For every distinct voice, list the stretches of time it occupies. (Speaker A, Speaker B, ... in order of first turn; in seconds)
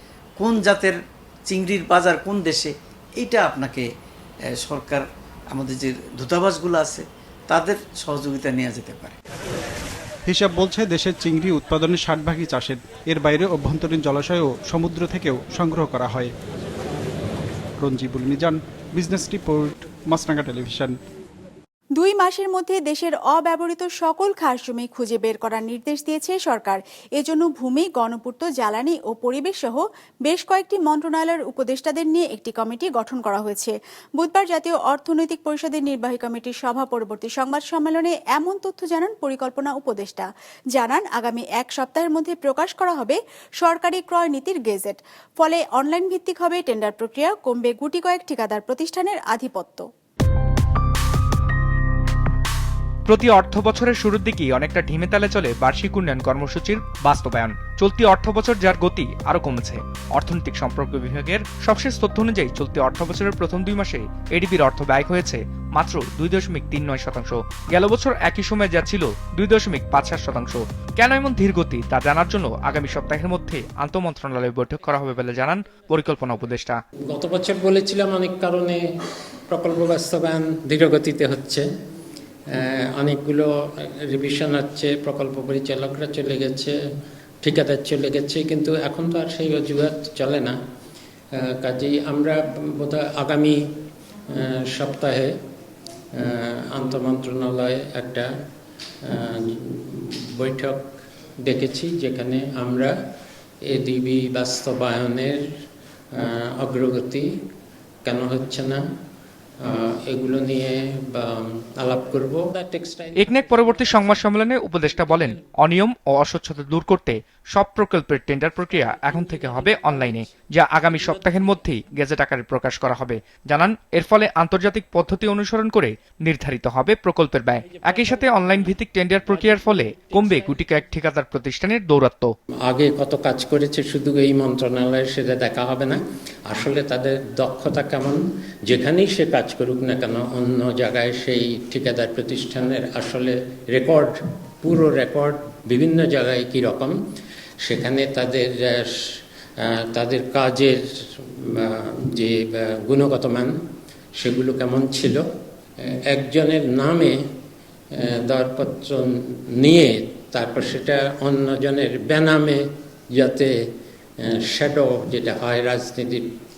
Speaker A: 0.4-1.0, 1.5-3.8, 4.6-9.2
Speaker B: 10.3-16.3, 17.8-20.9
Speaker C: 22.0-49.9
Speaker D: 53.1-76.8, 113.2-132.3
Speaker E: 77.1-78.8, 79.5-81.7, 82.5-86.8, 87.4-90.6, 91.5-93.6, 94.3-95.3, 96.2-98.3, 99.1-100.9, 101.4-102.9, 103.7-105.4, 106.2-107.3, 108.0-108.8, 109.6-114.3, 132.7-147.0, 147.6-149.0, 149.6-153.6, 154.2-155.2, 156.1-157.2, 158.0-163.5, 164.2-166.2